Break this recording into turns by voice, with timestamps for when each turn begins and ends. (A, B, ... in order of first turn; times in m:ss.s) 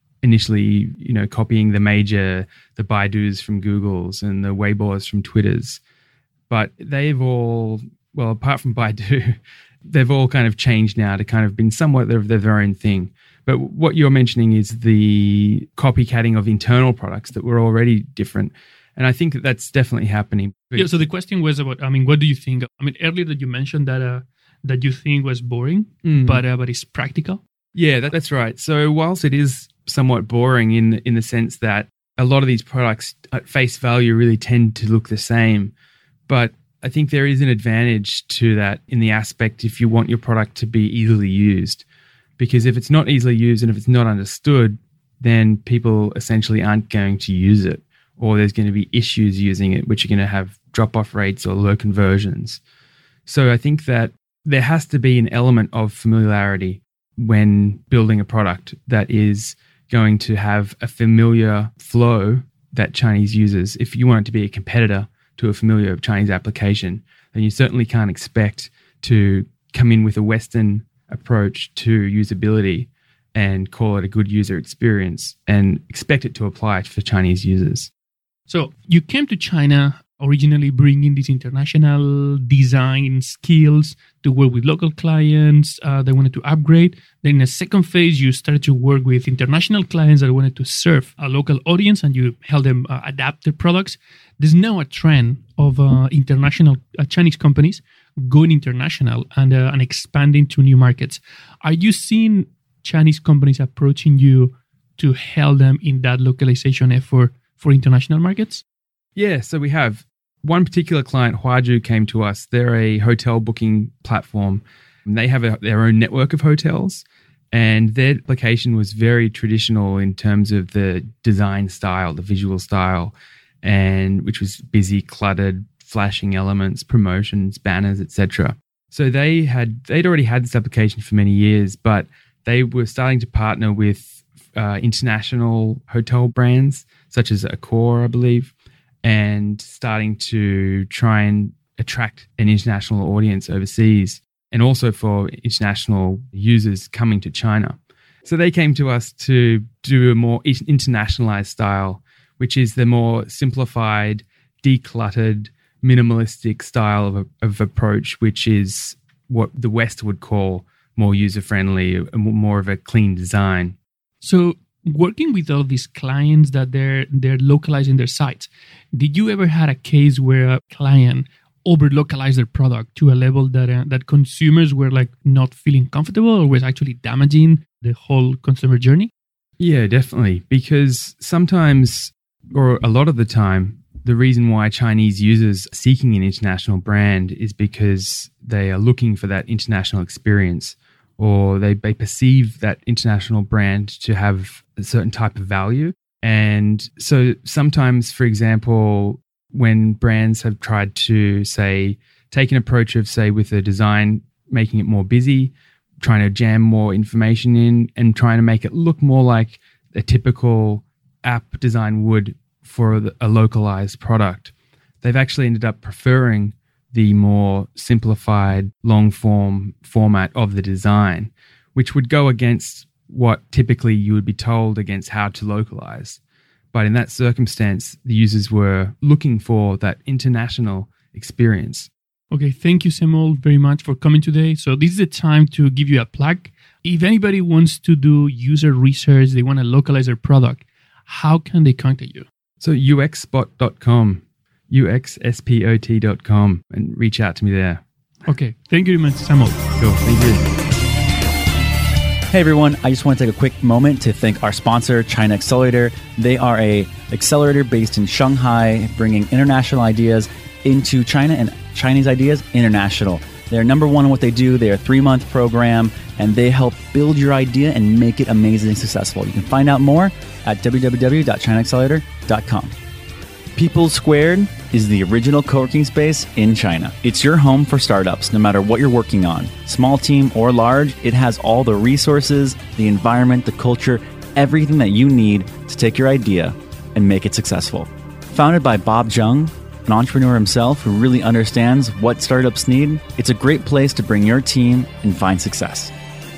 0:00.2-0:05.8 A
0:06.5-0:20.9 A
0:20.8-0:27.4 B
0:26.0-0:26.4 A
0:27.8-0:35.7 A
0:36.3-0:41.8 A
0:42.4-0:52.6 A
0:53.3-1:17.9 A
1:18.5-1:48.6 B
1:49.2-2:43.8 A
2:44.2-2:59.1 B
2:59.6-3:46.2 A
3:46.7-3:51.9 A
3:52.3-4:02.3 B
4:02.6-4:07.8 A
4:08.3-4:09.6 B
4:09.8-4:10.5 A
4:12.3-4:32.7 C
4:33.6-4:55.9 C